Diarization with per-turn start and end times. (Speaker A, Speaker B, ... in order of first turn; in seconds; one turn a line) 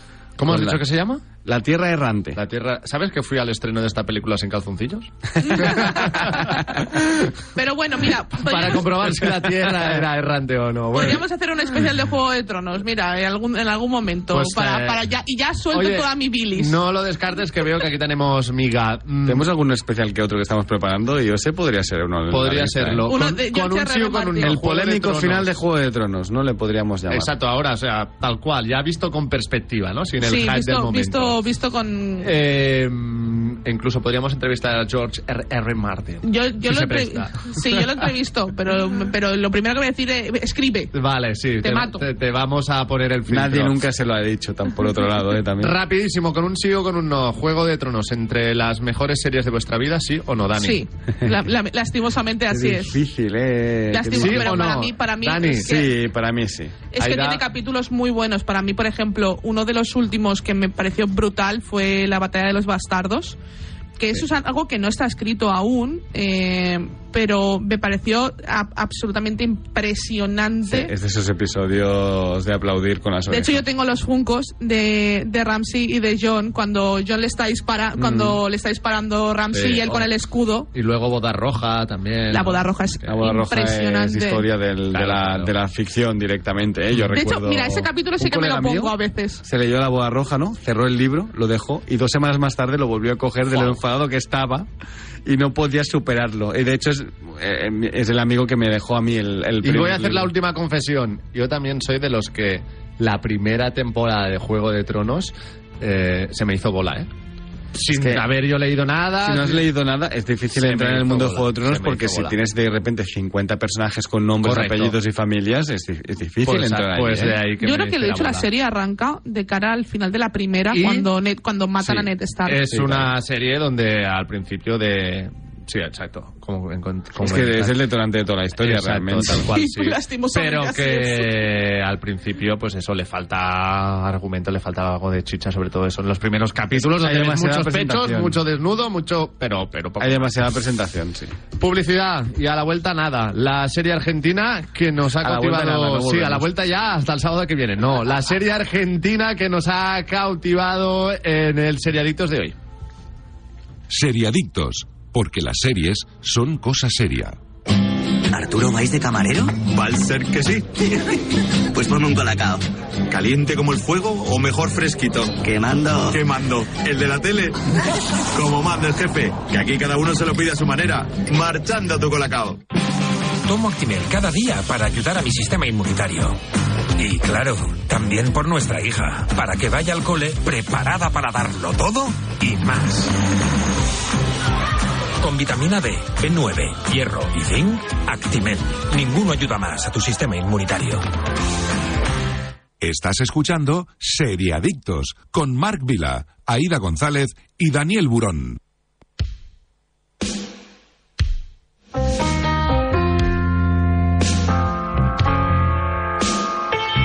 Speaker A: 0.4-1.2
Speaker B: 0.4-0.8
Speaker B: 1.4-2.4
Speaker A: 2.3-7.3
Speaker C: 5.4-6.3
Speaker C: 7.5-9.2
Speaker A: 8.4-11.2
Speaker C: 10.9-16.8
Speaker A: 14.3-15.1
Speaker A: 15.7-19.4
Speaker B: 19.2-23.1
Speaker A: 22.3-25.5
Speaker C: 23.1-24.5
Speaker B: 24.4-27.3
Speaker A: 27.1-31.4
Speaker C: 30.2-32.3
Speaker A: 32.2-38.1
Speaker C: 36.2-40.9
Speaker A: 40.9-43.8
Speaker C: 41.6-42.0
Speaker B: 43.3-45.8
Speaker A: 45.6-50.8
Speaker C: 50.6-53.0
Speaker B: 52.5-54.7
Speaker C: 53.9-55.9
Speaker A: 54.1-55.7
Speaker B: 55.6-56.8
Speaker C: 56.9-63.4
Speaker A: 57.0-57.4
Speaker C: 64.0-70.9
Speaker B: 70.7-73.6
Speaker C: 73.3-80.7
Speaker B: 78.0-78.4
Speaker A: 79.5-80.1
Speaker A: 80.7-82.7
Speaker C: 82.3-84.4
Speaker B: 83.0-94.7
Speaker A: 84.9-85.5
Speaker C: 87.1-89.4
Speaker B: 95.2-100.3
Speaker A: 99.6-107.1
Speaker A: 107.8-109.7
Speaker B: 107.9-108.2
Speaker B: 109.2-117.4
Speaker A: 110.5-112.3
Speaker A: 114.4-114.9
Speaker A: 116.4-118.5
Speaker C: 117.6-122.9
Speaker A: 120.7-121.1
Speaker A: 121.8-127.8
Speaker B: 127.2-129.5
Speaker A: 128.6-140.4
Speaker C: 129.5-131.4
Speaker B: 136.7-138.4
Speaker B: 140.0-141.3
Speaker A: 141.6-152.5
Speaker B: 145.2-146.5
Speaker D: 153.9-157.3
Speaker E: 158.3-159.6
Speaker F: 159.6-161.2
Speaker E: 161.7-162.6
Speaker F: 163.1-165.4
Speaker E: 165.4-166.2
Speaker F: 166.1-167.6
Speaker F: 168.3-172.6
Speaker G: 173.4-176.4
Speaker G: 176.9-183.1
Speaker G: 185.2-191.1
Speaker D: 192.8-198.6